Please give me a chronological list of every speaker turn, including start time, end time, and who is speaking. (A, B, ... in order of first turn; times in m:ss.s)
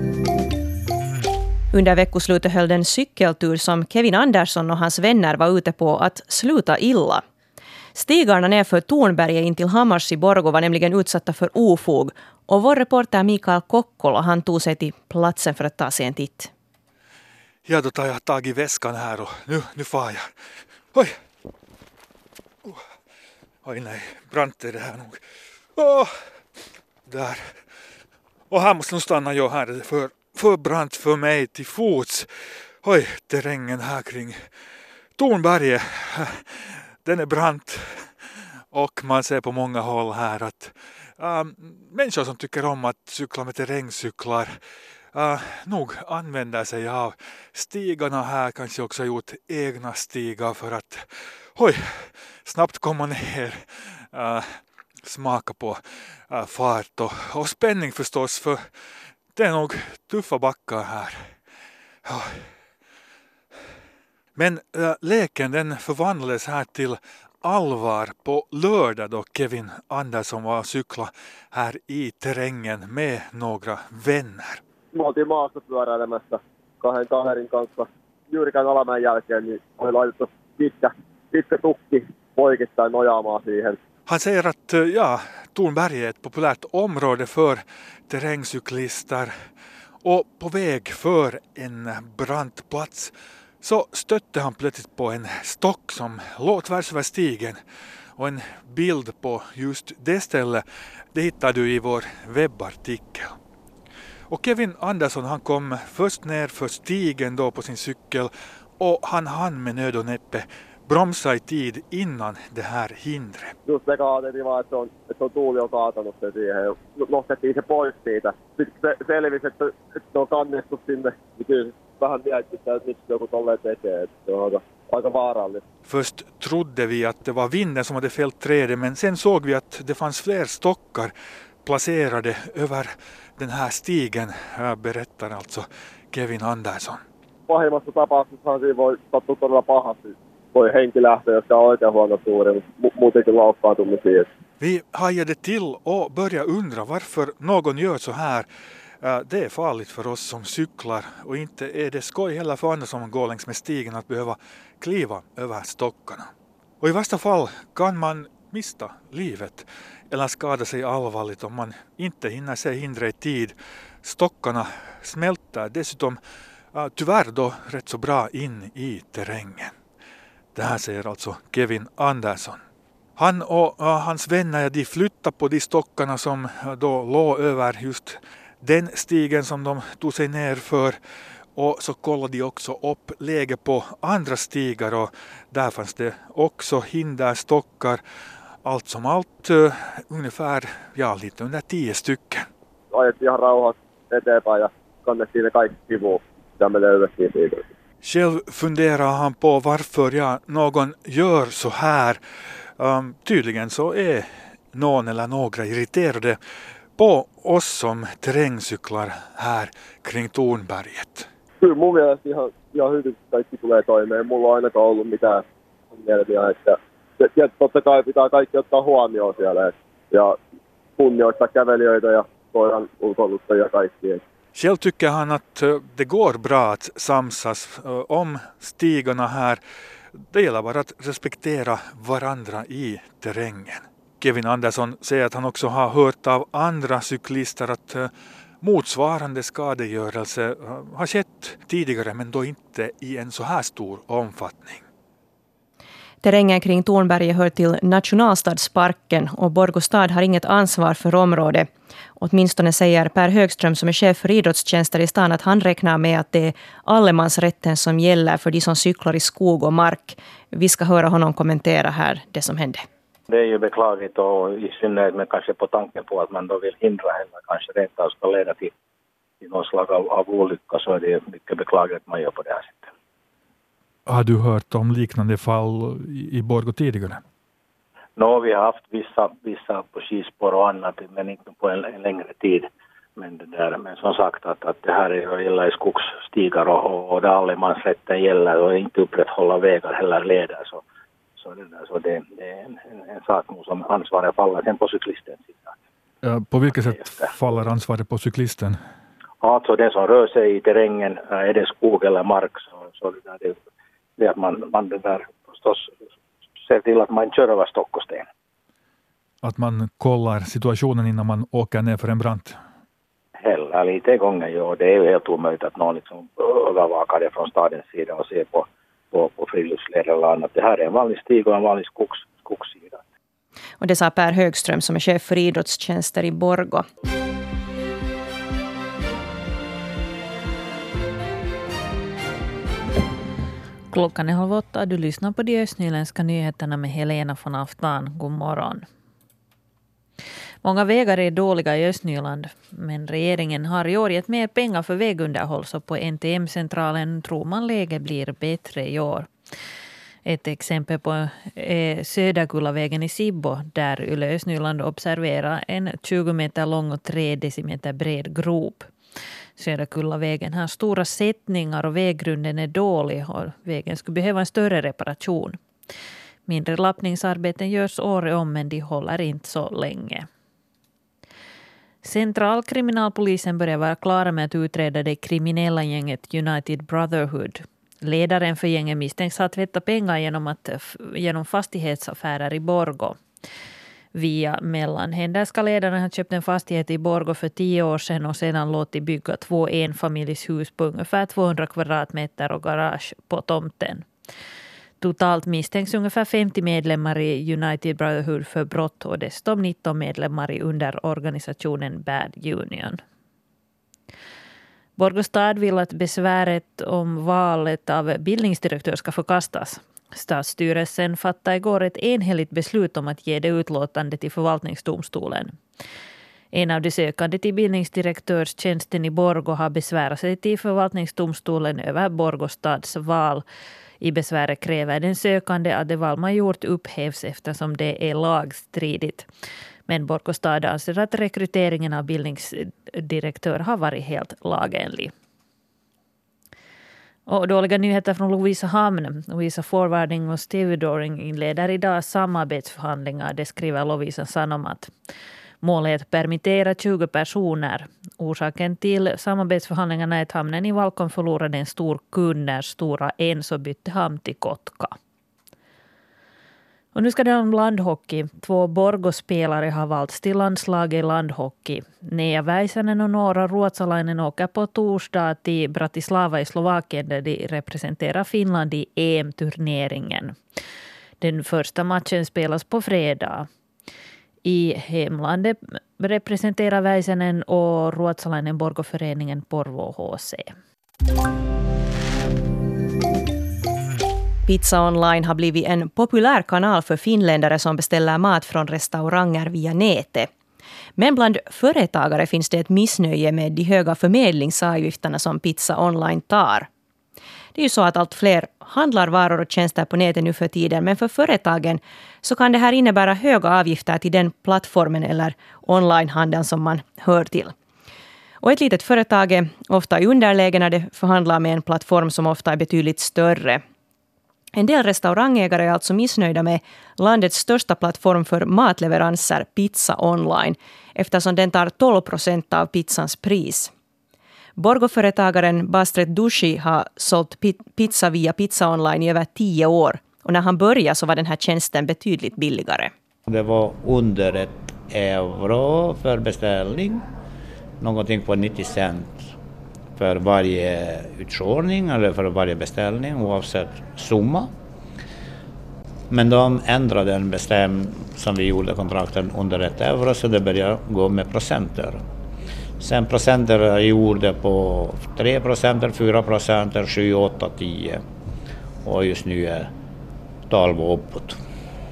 0:01.7-0:07.2 A
0:07.9-0:16.5 A
0:17.6-0:20.2 B
0:23.6-0:25.2 B
0:25.8-0:26.1 B
0:27.1-0:27.5 B
0:28.5-0:32.3 B
0:32.8-0:34.4 B
0:35.2-0:38.1 B
0:38.7-0:44.6 B
0:45.1-0:58.6 B
0:59.3-1:01.3 B
1:02.0-1:02.4 B
1:04.4-1:14.6 B
1:14.9-1:23.8 C
1:24.1-1:29.3 B
1:30.0-1:37.6 B
1:38.2-1:40.6 B
1:41.1-1:43.3 B
1:44.3-1:53.5 B
1:53.7-2:05.6 C
2:05.8-2:11.1 B
2:11.6-2:17.0 B
2:17.5-2:24.3 C
2:24.6-2:28.5 B
2:29.0-2:46.2 B
2:46.7-2:49.7 B
2:50.5-2:52.6 B
2:53.2-3:01.0 B
3:01.6-3:08.0 B
3:08.6-3:12.5 B
3:12.9-3:17.6 C
3:18.0-3:22.2 B
3:22.8-3:26.4 B
3:27.0-3:31.3 B
3:31.6-3:40.4 C
3:41.0-3:44.2 C
3:44.5-3:49.6 B
3:50.3-3:58.1 B
3:58.6-4:04.8 B
4:06.2-4:22.8 A
4:23.3-4:28.7 D
4:29.4-4:32.9 D
4:34.1-4:37.2 B
4:38.2-4:50.8 D
4:51.4-4:55.7 D
4:56.2-4:58.8 B
4:56.7-4:57.3 D
4:59.4-5:03.6 D
5:04.2-5:05.9 D
5:06.6-5:08.3 D
5:09.4-5:12.6 B
5:13.4-5:23.0 D
5:23.8-5:26.8 A
5:33.9-5:38.8 E
5:40.6-5:49.3 E
5:50.2-5:58.9 E
5:59.6-6:05.6 E
6:06.5-6:10.3 E
6:12.0-6:23.2 E
6:24.1-6:34.0 E
6:35.0-6:43.0 E
6:45.0-6:55.5 E
6:56.5-7:03.4 E
7:04.0-7:09.3 E
7:09.9-7:15.1 E
7:17.3-7:24.9 E
7:25.6-7:34.9 E
7:36.9-7:50.4 E
7:51.2-7:53.5 E
7:54.4-8:00.5 E
8:04.5-8:10.3 A
8:11.0-8:16.7 A
8:17.5-8:27.5 A
8:28.4-8:33.6 A
8:34.5-8:43.7 A
8:44.6-8:52.9 A
8:53.3-8:57.0 F
8:57.8-8:59.3 F
9:00.0-9:04.5 F
9:06.1-9:12.0 F
9:12.8-9:18.0 F
9:18.8-9:19.7 F
9:20.5-9:21.4 F